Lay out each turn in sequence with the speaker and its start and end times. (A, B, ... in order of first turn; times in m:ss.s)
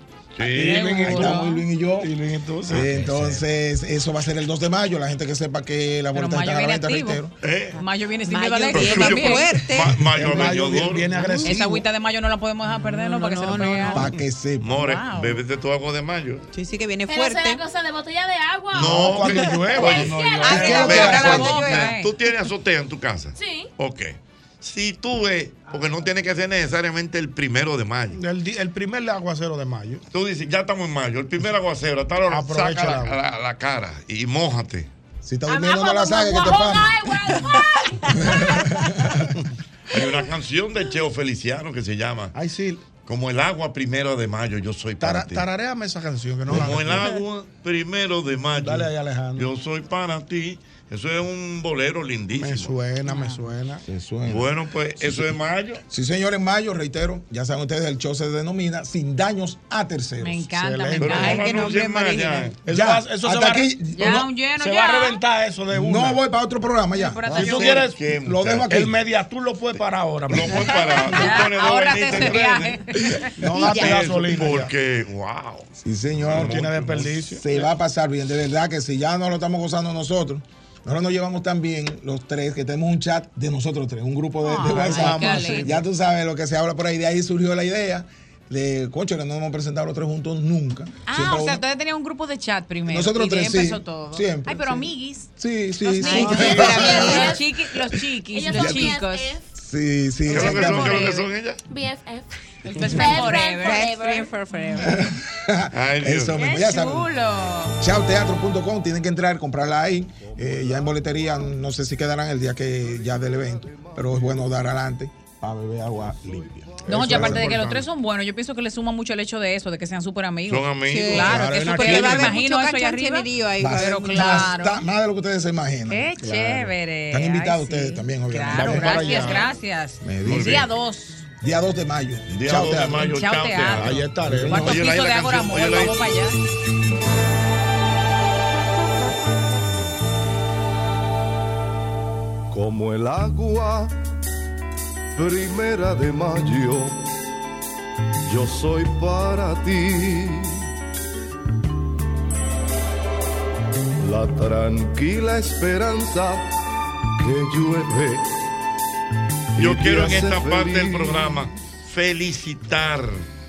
0:00.4-0:00.9 A
0:00.4-0:01.4 B
0:00.6-0:01.6 C
0:01.0-0:02.1 D
0:02.0-0:03.3 B
0:02.7-0:07.3 D
0:06.1-0:07.2 C
0:07.4-0:07.8 A
0:07.8-0:09.5 C
0:07.8-0:10.0 E
0:08.7-0:11.3 A
0:10.0-0:11.8 B
0:11.4-0:14.1 C
0:12.7-0:14.0 E
0:13.9-0:14.8 D
0:14.6-0:16.4 A
0:14.7-0:15.4 C
0:16.5-0:17.6 E
0:17.1-0:20.8 F
0:18.7-0:28.2 A
0:18.8-0:21.3 B
0:20.4-0:21.9 E
0:20.5-0:21.5 D
0:20.5-0:22.1 C
0:23.4-0:23.6 F
0:28.1-0:30.0 B
0:30.1-0:34.9 A
0:32.3-0:33.2 B
0:35.2-0:37.1 D
0:35.5-0:38.7 F
0:38.1-0:39.3 D
0:39.9-0:42.3 A
0:42.3-0:42.8 B
0:43.0-0:45.5 A
0:45.0-0:47.2 B
0:46.5-0:52.8 A
0:48.6-0:49.5 B
0:52.4-0:53.8 B
0:53.0-0:53.4 C
0:53.8-0:55.3 D
0:54.2-0:55.8 A
0:55.9-1:00.5 D
1:00.2-1:02.4 C
1:00.5-1:01.6 B
1:01.0-1:02.6 A
1:01.6-1:02.5 E
1:02.6-1:06.2 B
1:02.7-1:04.2 D
1:03.9-1:05.2 C
1:05.7-1:09.0 D
1:06.9-1:07.9 C
1:07.3-1:08.0 B
1:07.5-1:08.8 A
1:08.6-1:11.3 B
1:10.3-1:15.7 A
1:10.5-1:13.8 C
1:13.3-1:14.7 B
1:15.8-1:16.6 D
1:16.2-1:17.2 A
1:16.2-1:17.6 B
1:17.3-1:31.6 D
1:24.4-1:25.7 C
1:24.6-1:25.8 B
1:31.1-1:39.3 C
1:32.9-1:37.3 D
1:36.0-1:37.3 E
1:36.4-1:36.7 B
1:37.0-1:37.4 F
1:38.3-1:39.4 F
1:38.6-1:38.9 D
1:39.5-1:41.0 D
1:40.3-1:41.6 A
1:40.3-1:41.3 C
1:41.7-1:42.3 F
1:42.6-1:45.0 C
1:42.8-1:44.2 F
1:43.6-1:44.1 E
1:44.8-1:47.1 D
1:45.7-1:46.4 A
1:46.3-1:47.8 C
1:47.8-1:57.7 D
1:50.2-1:51.5 G
1:52.7-1:54.8 G
1:55.9-1:57.1 G
1:56.8-2:04.8 C
1:57.1-1:57.6 B
2:00.5-2:01.3 A
2:00.9-2:04.6 E
2:01.2-2:02.4 B
2:03.6-2:06.1 D
2:05.9-2:11.3 C
2:06.2-2:06.7 B
2:07.1-2:09.4 D
2:08.5-2:09.5 B
2:10.0-2:10.6 D
2:10.2-2:10.7 A
2:11.4-2:13.1 D
2:12.3-2:16.2 A
2:13.0-2:16.4 C
2:13.8-2:14.8 B
2:22.5-2:23.9 G
2:25.2-2:27.0 G
2:28.2-2:30.6 G
2:34.0-2:36.5 G
2:37.2-2:38.3 G
2:39.6-2:41.5 G
2:39.6-2:43.2 A